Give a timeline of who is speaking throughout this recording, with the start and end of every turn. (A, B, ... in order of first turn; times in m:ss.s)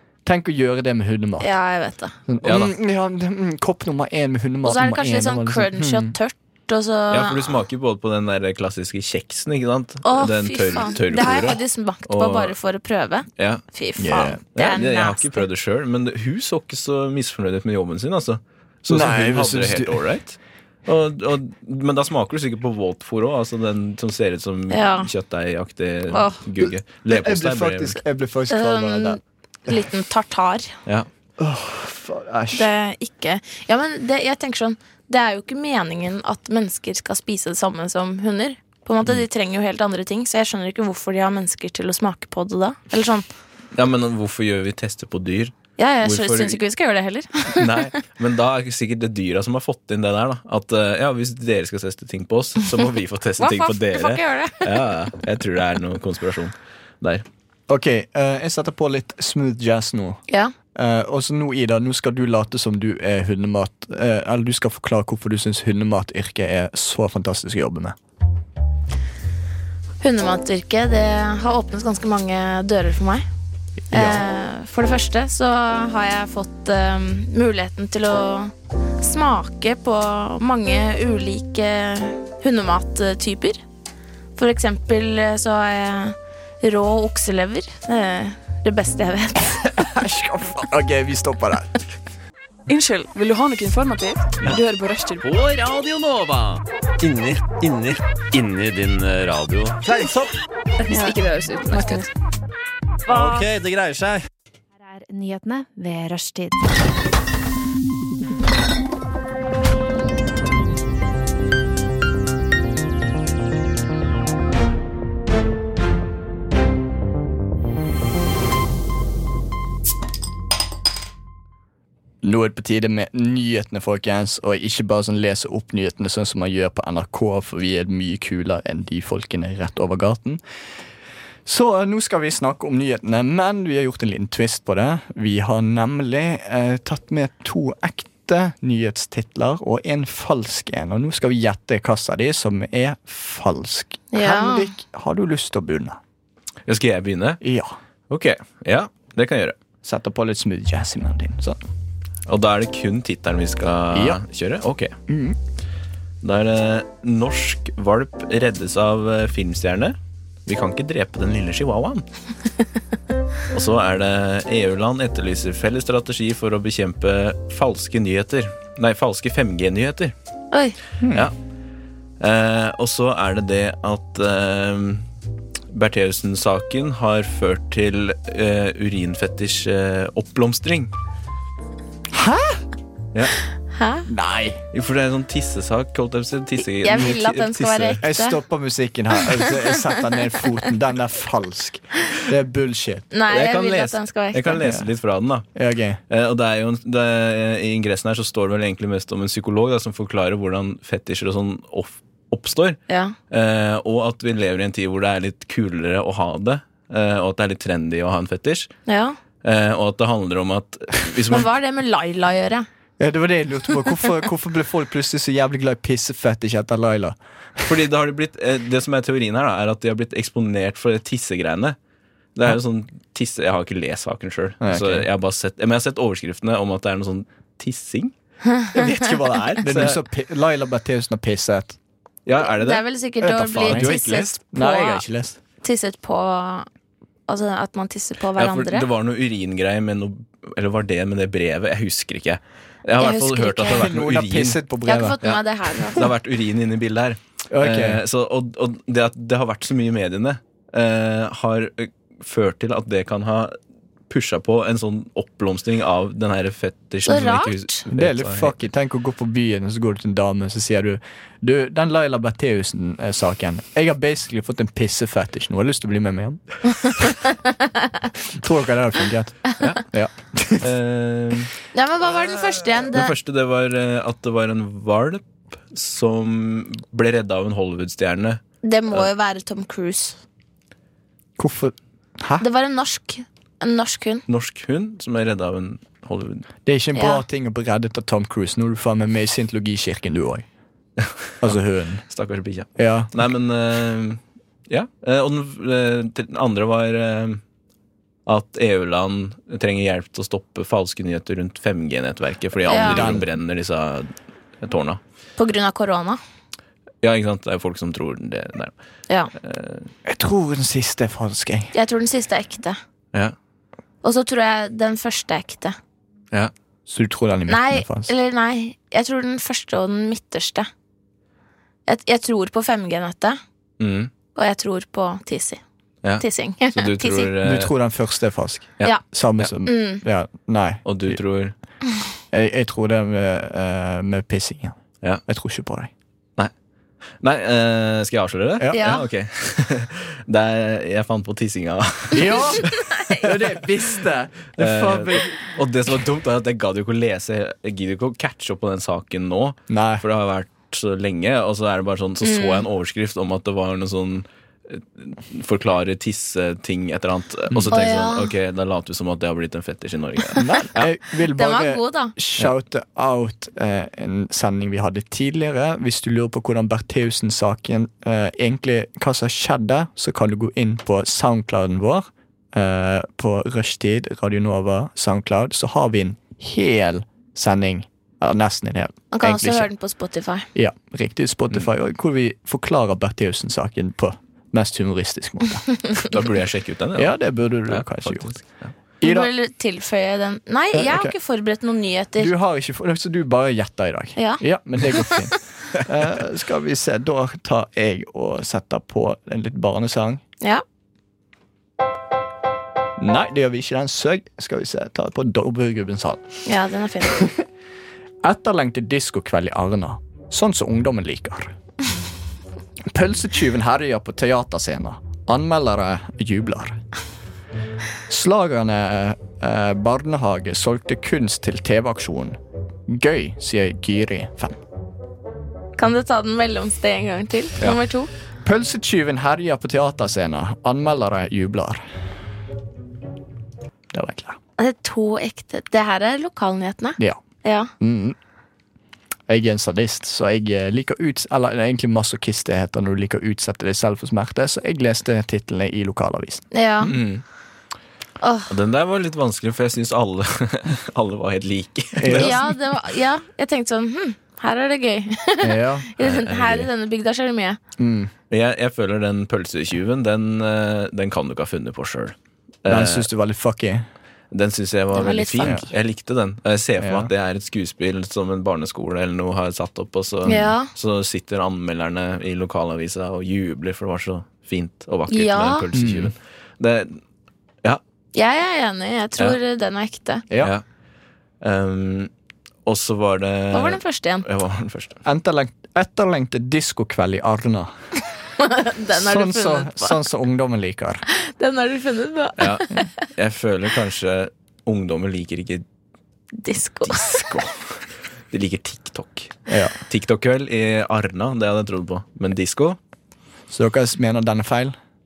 0:00.2-0:01.5 A
0:01.4-0:02.2 B
0:02.3-0:06.2 A
0:02.4-0:02.7 C
0:04.6-0:07.6 B
0:07.1-0:12.6 C
0:10.0-0:15.4 B
0:13.4-0:13.6 C
0:14.0-0:14.4 A
0:14.6-0:28.0 C
0:18.9-0:20.0 A
0:24.7-0:25.1 B
0:26.1-0:26.4 B
0:26.6-0:29.2 A
0:28.5-0:30.7 B
0:31.4-0:32.7 A
0:32.5-0:43.2 B
0:43.7-0:46.6 C
0:45.8-0:47.9 B
0:47.5-0:57.2 C
0:53.4-0:54.9 B
0:57.7-1:00.2 A
1:00.8-1:08.0 A
1:10.0-1:13.3 B
1:13.9-1:14.2 A
1:13.9-1:23.6 B
1:24.4-1:29.7 B
1:29.7-1:31.8 A
1:32.7-1:35.3 D
1:35.2-1:40.4 E
1:40.9-1:42.1 D
1:40.9-1:42.0 B
1:43.1-1:44.2 E
1:43.1-1:43.5 D
1:44.8-1:46.7 F
2:02.2-2:10.4 A
2:11.4-2:26.0 A
2:24.1-2:24.7 B
2:26.7-2:27.4 C
2:27.4-2:27.8 A
2:28.1-2:29.6 C
2:29.8-2:31.6 A
2:32.3-2:35.0 C
2:33.9-2:34.2 A
2:35.1-2:35.4 A
2:36.2-2:42.0 C
2:43.5-2:50.1 C
2:50.5-2:50.8 B
2:51.0-2:51.3 A
2:52.2-2:55.0 C
2:55.7-3:00.9 C
3:02.1-3:02.6 A
3:03.7-3:04.1 B
3:04.1-3:04.6 A
3:04.7-3:08.0 C
3:06.8-3:08.4 B
3:08.0-3:13.1 A
3:13.1-3:14.6 B
3:13.3-3:15.5 C
3:14.6-3:14.9 A
3:15.5-3:16.0 A
3:16.1-3:28.7 C
3:22.9-3:23.2 B
3:28.9-3:29.2 B
3:29.4-3:31.5 C
3:31.3-3:32.7 B
3:33.0-3:37.8 A
3:37.6-3:41.8 C
3:42.4-3:48.1 C
3:44.6-3:45.1 A
3:48.7-3:50.0 C
3:49.0-3:51.8 A
3:52.3-3:52.9 C
3:52.4-3:55.0 B
3:53.2-3:55.4 A
3:53.5-3:54.3 C
3:55.6-3:56.7 B
3:57.3-3:58.9 B
3:58.4-4:04.6 C
4:03.0-4:03.8 B
4:03.7-4:05.2 A
4:04.9-4:06.1 B
4:05.2-4:13.5 C
4:07.5-4:08.0 A
4:14.1-4:18.5 C
4:17.1-4:17.8 B
4:17.9-4:27.0 A
4:28.3-4:30.7 A
4:30.6-4:31.5 C
4:31.7-4:33.1 B
4:32.8-4:38.4 C
4:38.6-4:40.2 B
4:41.4-4:42.4 A
4:42.4-4:44.2 B
4:44.3-4:46.5 C
4:46.7-4:50.5 A
4:47.0-4:47.2 B
4:51.0-4:51.6 C
4:51.4-4:52.0 A
4:52.1-4:57.4 C
4:52.8-4:53.1 A
4:58.3-5:04.1 C
5:02.7-5:03.1 B
5:02.7-5:03.3 A
5:04.6-5:05.0 C
5:05.4-5:06.2 B
5:07.0-5:08.7 C
5:09.4-5:09.9 C
5:10.0-5:11.7 A
5:11.7-5:12.8 B
5:14.0-5:15.8 B
5:16.9-5:18.1 A
5:17.5-5:20.7 B
5:21.9-5:23.4 B
5:23.8-5:24.1 C
5:24.4-5:25.6 B
5:26.0-5:27.7 C
5:26.2-5:27.3 B
5:27.4-5:31.2 A
5:28.8-5:29.5 C
5:29.6-5:30.0 B
5:30.9-5:31.6 C
5:32.3-5:35.9 A
5:37.2-5:42.4 C
5:38.6-5:39.0 A
5:38.7-5:39.0 B
5:42.1-5:45.4 A
5:42.2-5:43.3 B
5:44.6-6:00.9 C
5:49.7-5:50.0 A
5:52.2-5:52.6 B
5:57.5-5:57.8 A
5:57.7-5:58.3 B
6:00.4-6:19.7 A
6:01.3-6:02.2 B
6:19.1-6:20.5 B
6:20.6-6:25.7 A
6:26.0-6:27.2 C
6:27.0-6:28.3 A
6:27.7-6:28.7 C
6:29.0-6:29.3 A
6:29.0-6:32.3 B
6:30.7-6:31.1 A
6:32.2-6:40.2 A
6:34.2-6:35.2 B
6:43.0-6:46.3 A
6:46.4-6:47.3 B
6:48.2-6:51.5 A
6:52.9-6:56.8 A
6:58.1-7:04.6 A
7:05.8-7:08.1 B
7:08.4-7:11.8 A
7:13.9-7:14.4 A
7:14.6-7:17.7 B
7:17.8-7:18.2 A
7:19.3-7:26.5 A
7:26.5-7:27.0 B
7:26.8-7:27.2 C
7:28.2-7:28.5 B
7:28.5-7:32.4 C
7:32.0-7:32.5 A
7:32.1-7:37.6 B
7:35.4-7:35.9 A
7:36.0-7:36.7 C
7:37.8-7:38.1 A
7:38.3-7:43.1 C
7:42.7-7:43.9 A
7:44.3-7:57.0 C
7:44.9-7:45.6 B
7:45.4-7:45.7 A
7:46.8-7:47.1 A
7:50.3-7:50.7 B
7:55.1-7:55.7 B
7:55.7-7:56.1 A
7:58.1-8:00.2 B
8:01.4-8:02.1 C
8:02.7-8:05.0 C
8:03.5-8:04.2 B
8:05.0-8:07.7 A
8:08.4-8:10.0 B
8:08.9-8:11.0 A
8:11.1-8:12.8 B
8:12.4-8:15.6 C
8:16.4-8:17.3 B
8:16.9-8:17.7 C
8:18.3-8:19.4 C
8:19.5-8:19.8 A
8:19.9-8:22.8 C
8:23.5-8:24.8 A